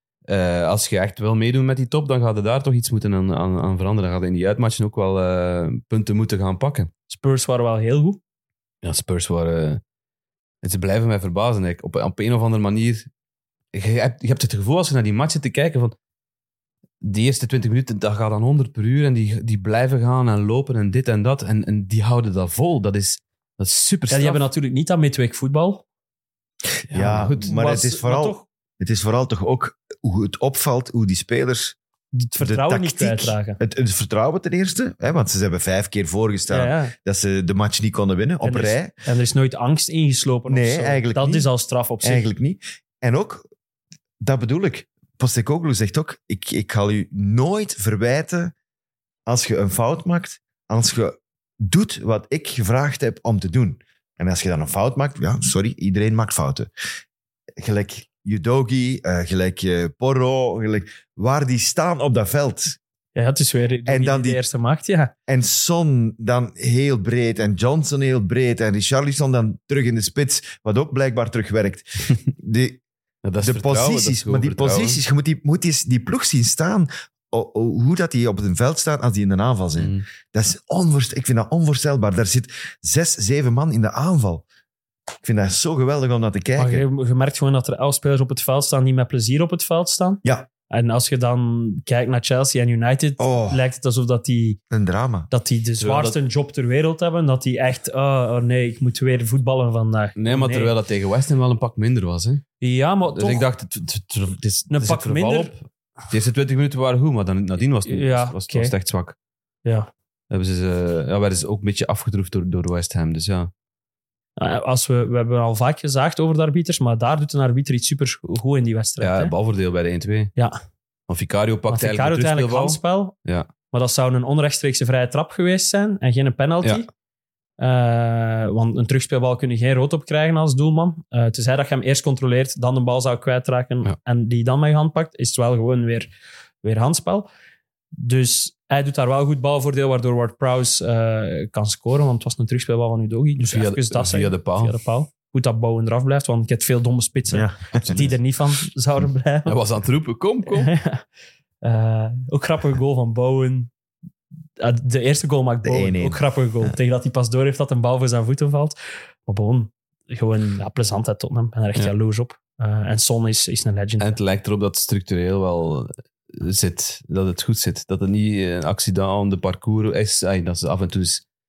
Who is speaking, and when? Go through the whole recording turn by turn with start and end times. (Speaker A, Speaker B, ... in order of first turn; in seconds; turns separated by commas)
Speaker A: 0.3-6.9, Speaker B: 7.1-8.2, Speaker A: 8.8-9.8, Speaker A: 10.6-13.1, Speaker A: 13.7-15.9, Speaker A: 17.0-24.4, Speaker B: 24.1-25.8, Speaker C: 26.9-31.8, Speaker A: 26.9-27.6, Speaker B: 27.4-28.4, Speaker B: 32.1-33.6, Speaker C: 32.4-38.9, Speaker B: 36.5-36.9, Speaker B: 38.4-42.3, Speaker C: 40.5-41.5, Speaker C: 42.0-43.4, Speaker C: 44.2-48.5, Speaker C: 49.2-56.7, Speaker C: 57.6-62.8, Speaker B: 63.1-65.1, Speaker C: 63.9-64.4, Speaker C: 65.3-72.8, Speaker A: 73.2-75.0, Speaker C: 73.4-84.4, Speaker A: 79.8-80.0, Speaker C: 85.2-86.8, Speaker B: 86.6-94.6, Speaker C: 93.2-93.6, Speaker C: 94.7-95.3, Speaker B: 95.3-100.7, Speaker A: 95.8-96.2, Speaker A: 100.2-102.4, Speaker B: 102.6-103.5, Speaker A: 103.1-109.2, Speaker B: 104.7-105.5, Speaker B: 107.9-108.7, Speaker A: 110.3-113.5, Speaker B: 114.4-119.3, Speaker A: 119.0-120.3, Speaker A: 121.1-123.5, Speaker B: 121.7-123.2, Speaker B: 123.7-126.9, Speaker B: 127.6-136.1, Speaker B: 136.6-137.3, Speaker B: 138.0-149.6, Speaker A: 143.4-144.8, Speaker C: 147.3-148.1, Speaker A: 149.4-150.7, Speaker B: 150.5-151.0, Speaker B: 151.6-153.7, Speaker B: 154.6-164.2, Speaker C: 155.6-156.7, Speaker A: 164.0-171.2